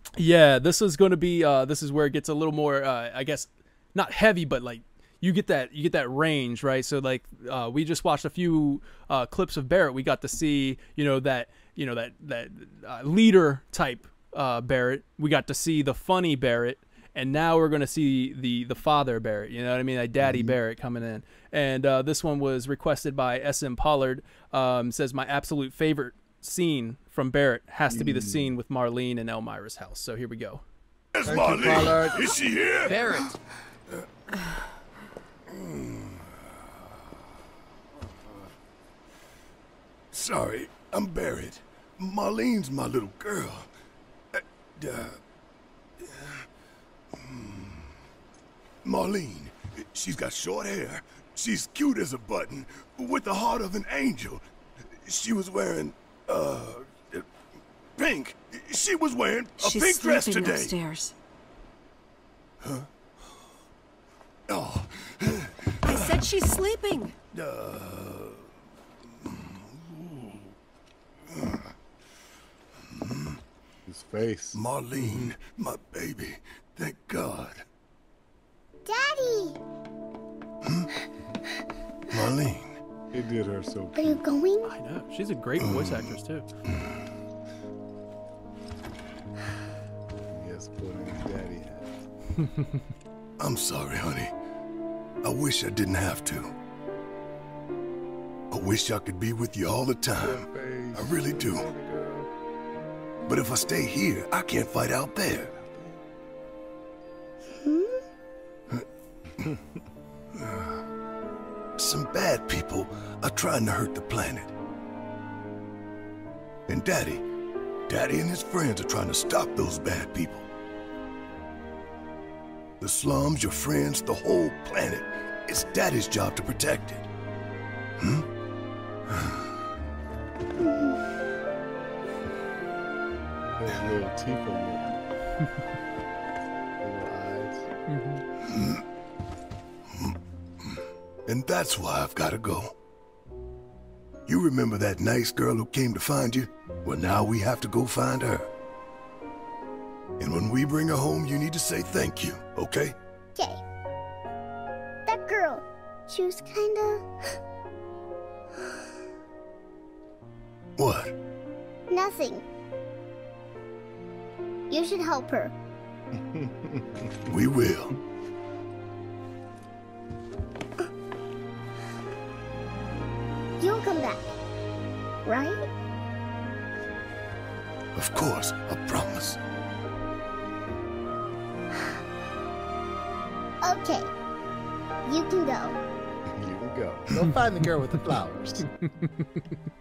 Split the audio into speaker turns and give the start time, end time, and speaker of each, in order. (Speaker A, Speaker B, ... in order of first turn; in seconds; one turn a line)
Speaker A: 0.2-30.6
Speaker B: 20.2-20.6
Speaker B: 27.9-28.6
Speaker C: 31.1-33.3
Speaker B: 31.2-32.3
Speaker A: 32.9-33.3
Speaker C: 35.5-36.5
Speaker C: 40.1-43.7
Speaker C: 44.3-45.2
Speaker C: 46.0-46.5
Speaker C: 47.1-47.9
Speaker C: 48.8-57.2
Speaker C: 58.0-60.8
Speaker D: 59.6-61.1
Speaker C: 62.6-62.9
Speaker C: 64.5-66.5
Speaker D: 65.9-67.1
Speaker C: 67.3-68.5
Speaker C: 69.2-70.5
Speaker C: 71.3-71.7
Speaker C: 72.9-73.4
Speaker B: 73.9-74.6
Speaker C: 74.5-77.6
Speaker A: 74.9-75.3
Speaker E: 78.9-79.6
Speaker C: 80.6-80.9
Speaker C: 82.1-82.8
Speaker B: 83.1-84.3
Speaker E: 84.0-84.7
Speaker A: 84.7-86.5
Speaker C: 85.6-86.2
Speaker C: 86.7-87.0
Speaker B: 90.3-92.0
Speaker A: 92.4-92.8
Speaker C: 93.4-94.3
Speaker C: 95.2-96.6
Speaker C: 98.5-101.7
Speaker B: 100.2-102.3
Speaker C: 103.3-105.5
Speaker B: 105.3-106.0
Speaker E: 107.6-108.0
Speaker B: 109.5-109.8
Speaker C: 111.8-114.5
Speaker C: 116.7-117.2
Speaker C: 117.9-120.5
Speaker C: 122.8-127.1
Speaker C: 128.0-128.2
Speaker C: 129.1-129.4
Speaker B: 133.6-134.9
Speaker B: 136.8-137.7
Speaker A: 137.9-138.2
Speaker C: 138.4-138.8
Speaker C: 139.9-140.7
Speaker C: 141.3-142.8
Speaker C: 144.3-148.5
Speaker C: 150.2-152.9
Speaker E: 153.4-153.6
Speaker E: 155.1-157.0
Speaker C: 160.8-161.1
Speaker E: 161.9-162.4
Speaker E: 164.7-165.5
Speaker B: 166.1-167.1
Speaker C: 167.2-167.9
Speaker E: 173.6-174.3
Speaker E: 175.2-175.6
Speaker C: 177.9-179.4
Speaker E: 183.6-184.1
Speaker E: 185.1-185.8
Speaker B: 186.3-188.7
Speaker A: 188.8-189.6